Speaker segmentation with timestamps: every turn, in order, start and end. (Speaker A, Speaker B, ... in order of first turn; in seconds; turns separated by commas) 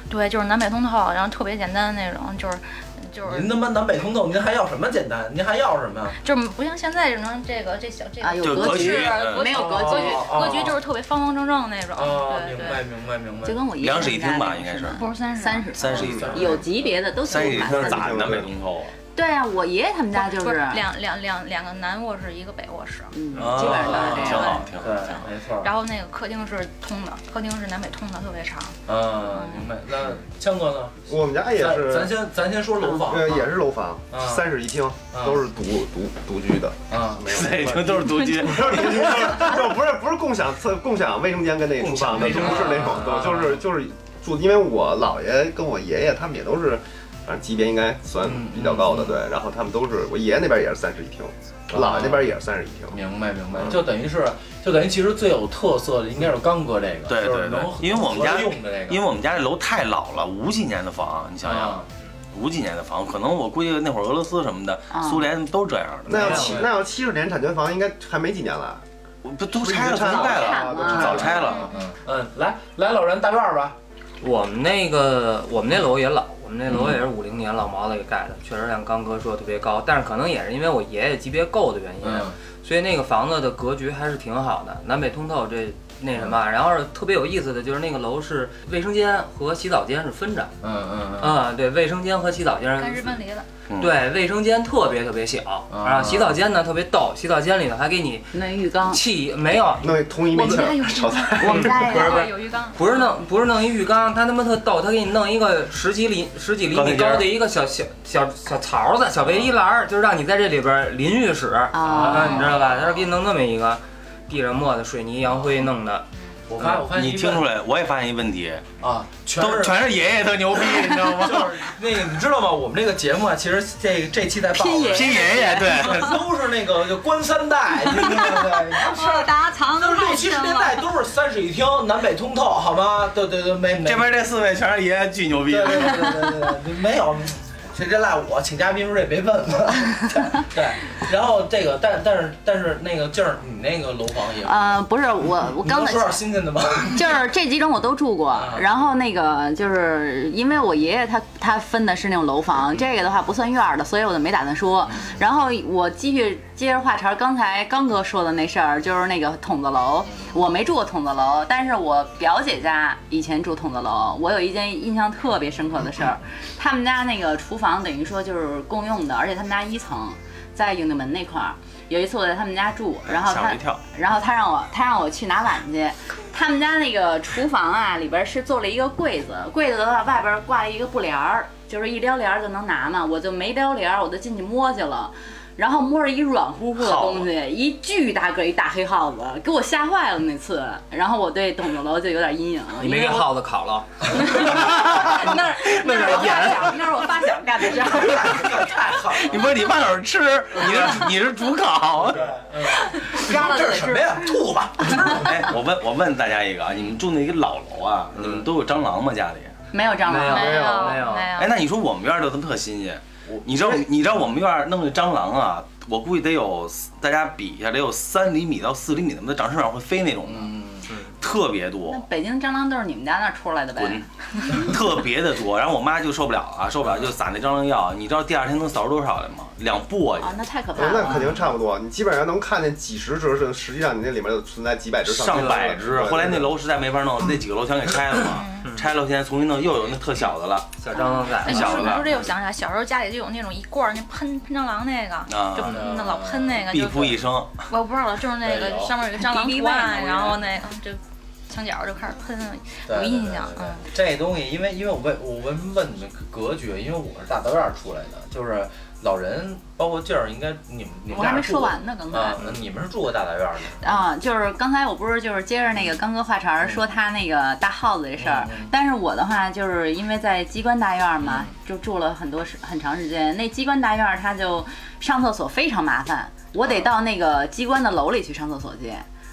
Speaker A: 0.1-3.5, Speaker B: 3.2-6.2, Speaker A: 6.2-12.9, Speaker C: 8.2-10.4, Speaker D: 8.4-9.6, Speaker B: 9.5-10.8, Speaker B: 11.9-13.7, Speaker C: 13.4-18.2, Speaker D: 13.7-15.0, Speaker A: 14.9-16.2, Speaker D: 15.7-16.7, Speaker B: 16.1-16.7, Speaker D: 17.2-18.9, Speaker E: 17.3-18.5, Speaker C: 19.1-20.8, Speaker A: 20.1-23.1, Speaker C: 23.1-24.6, Speaker B: 23.4-25.7, Speaker D: 23.4-25.1, Speaker A: 24.2-29.7, Speaker B: 28.9-33.5, Speaker E: 31.1-32.1, Speaker E: 33.0-53.0, Speaker B: 34.1-34.5, Speaker B: 35.1-35.4, Speaker B: 36.9-37.3, Speaker D: 37.3-39.6, Speaker B: 41.8-43.6, Speaker B: 48.2-49.2, Speaker B: 51.7-52.3, Speaker B: 52.9-59.0, Speaker D: 57.1-66.5, Speaker B: 61.4-61.9, Speaker C: 64.9-65.2, Speaker E: 66.1-68.8, Speaker F: 66.1-66.7, Speaker B: 66.3-66.7, Speaker D: 69.2-71.7, Speaker E: 69.5-71.6, Speaker C: 70.0-71.4, Speaker B: 71.0-73.8, Speaker F: 74.2-90.5, Speaker B: 82.0-82.4, Speaker B: 90.6-91.4, Speaker F: 91.2-93.2, Speaker A: 92.8-93.5, Speaker D: 93.7-93.9, Speaker F: 93.8-98.3, Speaker B: 95.7-96.4, Speaker C: 98.3-99.0, Speaker F: 98.9-100.0, Speaker E: 99.8-101.9, Speaker C: 100.3-102.3, Speaker F: 101.4-116.1, Speaker A: 101.7-103.2, Speaker D: 106.7-107.3, Speaker C: 111.7-112.6, Speaker B: 111.8-112.7, Speaker D: 112.5-113.0, Speaker B: 116.5-117.5, Speaker D: 116.8-118.7, Speaker B: 118.8-119.9, Speaker D: 119.4-121.7, Speaker B: 120.5-134.1, Speaker C: 124.5-126.2, Speaker D: 124.9-126.2, Speaker C: 127.9-130.9, Speaker D: 133.8-136.4, Speaker B: 135.4-144.8, Speaker C: 144.4-146.2, Speaker B: 145.5-147.2, Speaker C: 146.9-193.3, Speaker B: 148.3-148.7, Speaker D: 173.1-173.8, Speaker D: 186.8-187.3, Speaker F: 192.8-196.9, Speaker C: 194.1-198.8, Speaker B: 194.2-194.5, Speaker D: 195.8-196.1, Speaker B: 197.8-199.6, Speaker D: 199.1-202.3, Speaker F: 200.6-201.1, Speaker B: 202.1-205.6, Speaker C: 202.7-205.2, Speaker D: 205.1-209.6, Speaker C: 209.7-210.7, Speaker F: 210.1-211.3, Speaker A: 210.2-211.6, Speaker D: 211.4-222.1, Speaker B: 213.3-213.8, Speaker B: 220.2-221.0, Speaker C: 221.9-224.1, Speaker D: 223.8-230.4, Speaker C: 230.2-231.2, Speaker E: 230.8-236.5, Speaker B: 231.1-231.4, Speaker D: 235.1-242.1, Speaker F: 235.3-235.7, Speaker F: 240.8-242.2, Speaker A: 241.1-253.9, Speaker D: 245.3-245.8, Speaker B: 245.7-246.7, Speaker D: 246.7-247.7, Speaker B: 248.4-248.9, Speaker C: 249.2-250.4, Speaker B: 252.9-264.0, Speaker C: 261.1-262.4, Speaker C: 263.8-279.1, Speaker B: 268.2-268.7, Speaker B: 271.2-271.5